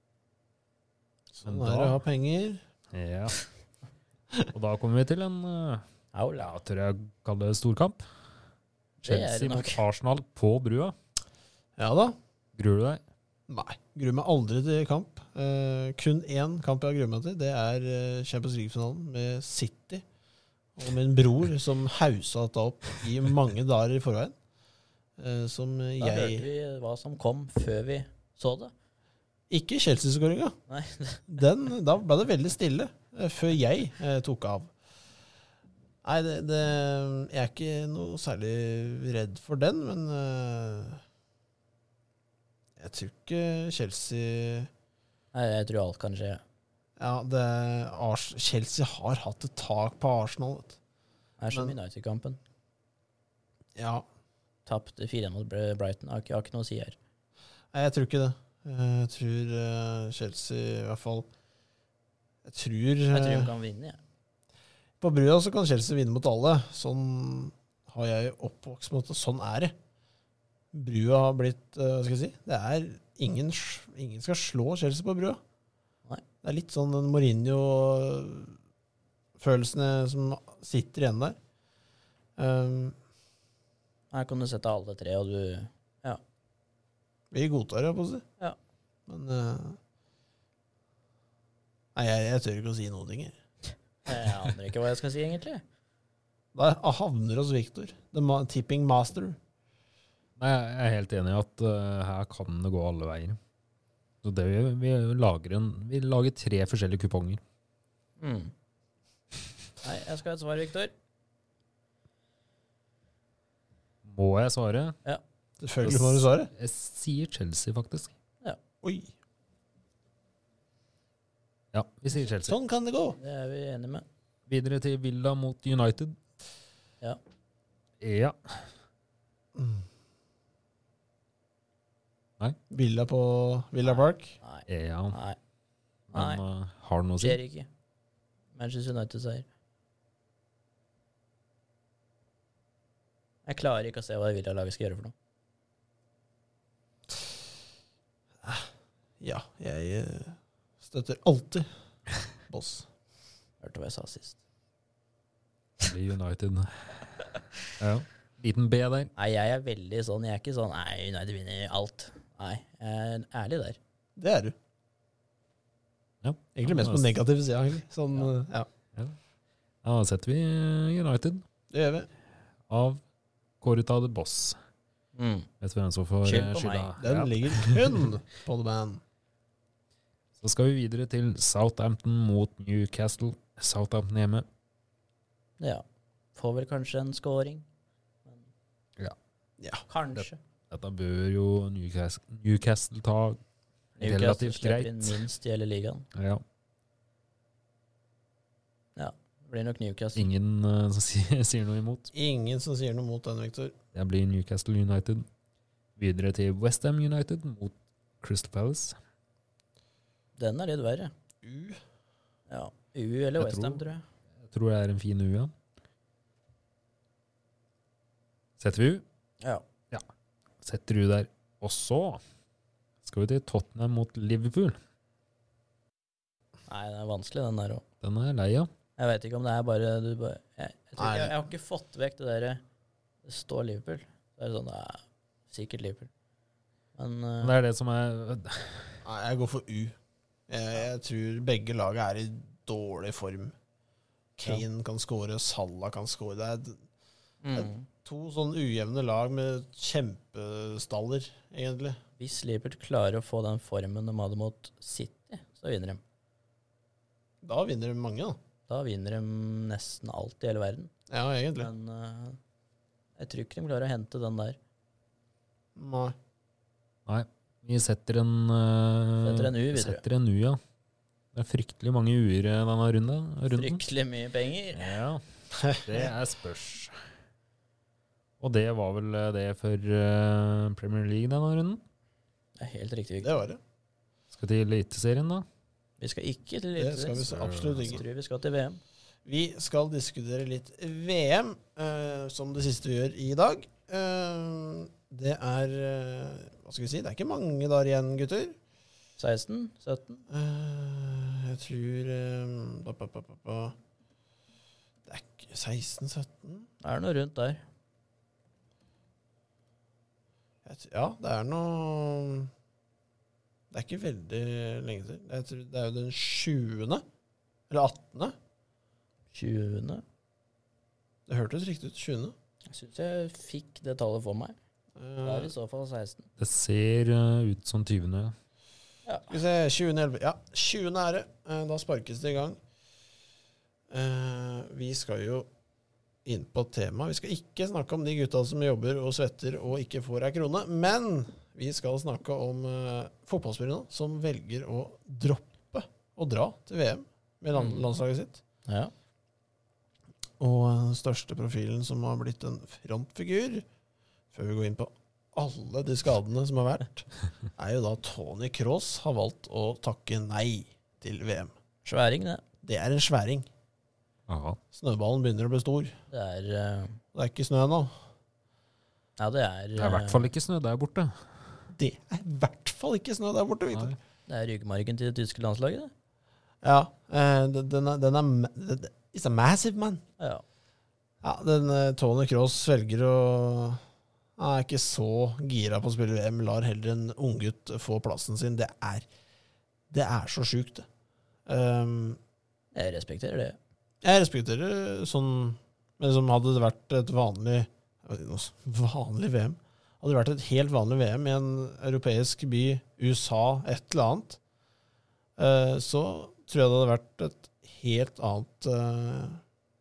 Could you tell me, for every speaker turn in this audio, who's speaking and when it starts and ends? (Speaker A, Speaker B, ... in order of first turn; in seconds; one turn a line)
Speaker A: 1.3-2.6
Speaker B: 1.4-2.0
Speaker B: 2.9-3.4
Speaker B: 4.5-5.8
Speaker C: 6.1-6.5
Speaker B: 6.4-8.0
Speaker C: 9.0-9.8
Speaker B: 9.0-10.9
Speaker A: 11.8-12.2
Speaker B: 12.6-13.0
Speaker A: 13.5-20.0
Speaker A: 20.8-24.4
Speaker A: 25.2-26.5
Speaker C: 26.0-28.7
Speaker A: 29.5-30.6
Speaker C: 30.7-31.3
Speaker A: 31.3-34.7
Speaker A: 36.0-41.0
Speaker A: 42.8-44.7
Speaker C: 45.3-46.4
Speaker A: 47.0-50.8
Speaker C: 51.4-52.4
Speaker A: 53.8-54.0
Speaker C: 54.7-57.0
Speaker A: 57.7-61.3
Speaker A: 62.4-63.5
Speaker C: 63.1-64.0
Speaker A: 65.0-69.8
Speaker A: 70.7-75.4
Speaker A: 76.4-78.6
Speaker A: 79.4-81.4
Speaker A: 82.4-83.0
Speaker C: 84.1-86.2
Speaker A: 87.3-88.2
Speaker A: 89.1-89.8
Speaker A: 92.0-93.3
Speaker C: 94.1-95.6
Speaker A: 96.5-99.4
Speaker B: 100.4-103.4
Speaker B: 104.2-107.4
Speaker C: 108.2-108.5
Speaker C: 109.8-110.9
Speaker B: 114.0-115.0
Speaker A: 115.6-116.5
Speaker B: 115.8-118.1
Speaker A: 118.8-119.1
Speaker B: 121.7-122.6
Speaker A: 122.5-123.2
Speaker C: 123.2-124.1
Speaker B: 124.5-126.2
Speaker B: 128.0-128.7
Speaker A: 129.6-129.9
Speaker A: 132.7-134.4
Speaker C: 133.8-135.4
Speaker B: 134.7-135.2
Speaker B: 136.1-137.4
Speaker C: 136.1-136.4
Speaker C: 137.2-137.7
Speaker C: 138.6-139.5
Speaker C: 143.5-145.1
Speaker A: 148.4-151.7
Speaker A: 152.5-152.9
Speaker C: 153.6-154.4
Speaker B: 155.8-157.1
Speaker B: 157.7-159.1
Speaker C: 159.2-163.8
Speaker A: 164.2-164.6
Speaker B: 166.2-167.1
Speaker A: 166.6-168.7
Speaker B: 169.8-171.4
Speaker A: 171.7-172.1
Speaker B: 172.7-173.0
Speaker B: 173.6-174.6
Speaker C: 175.2-175.5
Speaker B: 175.6-178.1
Speaker C: 176.2-176.9
Speaker A: 177.0-179.0
Speaker B: 180.4-184.5
Speaker C: 185.6-185.8
Speaker C: 186.3-187.7
Speaker A: 189.6-189.8
Speaker C: 189.9-190.4
Speaker B: 190.2-193.4
Speaker C: 194.0-196.1
Speaker B: 194.0-195.2
Speaker B: 196.1-196.4
Speaker C: 199.0-200.3
Speaker B: 200.2-202.1
Speaker A: 202.1-203.8
Speaker B: 203.9-205.3
Speaker B: 206.0-209.0
Speaker C: 210.4-211.1
Speaker A: 211.4-211.8
Speaker C: 212.5-214.0
Speaker B: 213.4-213.8
Speaker B: 214.4-215.5
Speaker B: 218.6-219.0
Speaker B: 220.6-222.2
Speaker B: 223.1-224.8
Speaker C: 226.7-227.8
Speaker B: 228.0-228.7
Speaker C: 229.0-232.6
Speaker A: 231.0-231.3
Speaker C: 233.2-236.1
Speaker C: 237.0-237.6
Speaker B: 237.4-239.0
Speaker A: 239.0-240.0
Speaker A: 240.5-243.6
Speaker A: 244.4-246.8
Speaker C: 247.4-247.9
Speaker A: 247.5-252.0
Speaker C: 252.2-256.0
Speaker A: 257.4-258.4
Speaker C: 258.7-260.9
Speaker A: 261.1-261.7
Speaker C: 261.6-262.4
Speaker C: 263.2-264.6
Speaker A: 265.8-266.2
Speaker B: 267.1-270.6
Speaker C: 269.2-270.0
Speaker B: 271.3-273.8
Speaker C: 273.5-275.0
Speaker B: 274.8-276.9
Speaker A: 275.5-276.1
Speaker B: 278.4-281.8
Speaker C: 282.6-283.3
Speaker A: 283.2-283.6
Speaker B: 284.3-285.5
Speaker C: 286.0-288.8
Speaker A: 286.8-288.0
Speaker B: 287.2-288.0
Speaker A: 289.2-298.6
Speaker C: 299.2-300.2
Speaker A: 300.3-303.8
Speaker A: 305.1-306.7
Speaker C: 306.8-307.6
Speaker A: 310.6-312.5
Speaker A: 313.7-317.0
Speaker A: 317.7-318.4
Speaker C: 319.3-320.0
Speaker A: 321.3-322.3
Speaker C: 322.7-324.6
Speaker A: 325.0-325.5
Speaker C: 325.2-326.3
Speaker B: 326.4-328.4
Speaker C: 329.1-329.4
Speaker A: 329.3-332.6
Speaker A: 333.9-335.5
Speaker A: 336.2-348.4
Speaker C: 347.5-347.9
Speaker C: 348.7-348.9
Speaker A: 350.4-353.7
Speaker A: 354.3-361.5
Speaker C: 361.9-362.4
Speaker A: 362.6-363.5
Speaker B: 364.3-364.6
Speaker A: 364.7-366.0
Speaker C: 366.1-367.0
Speaker A: 367.1-367.9
Speaker C: 369.2-370.3
Speaker B: 369.8-371.3
Speaker A: 371.7-373.9
Speaker B: 373.7-374.0
Speaker C: 374.3-375.9
Speaker A: 376.6-380.0
Speaker A: 381.2-383.8
Speaker A: 384.4-389.1
Speaker A: 389.9-390.9
Speaker A: 391.5-392.2
Speaker C: 392.7-393.6
Speaker A: 394.0-404.4
Speaker A: 405.4-409.4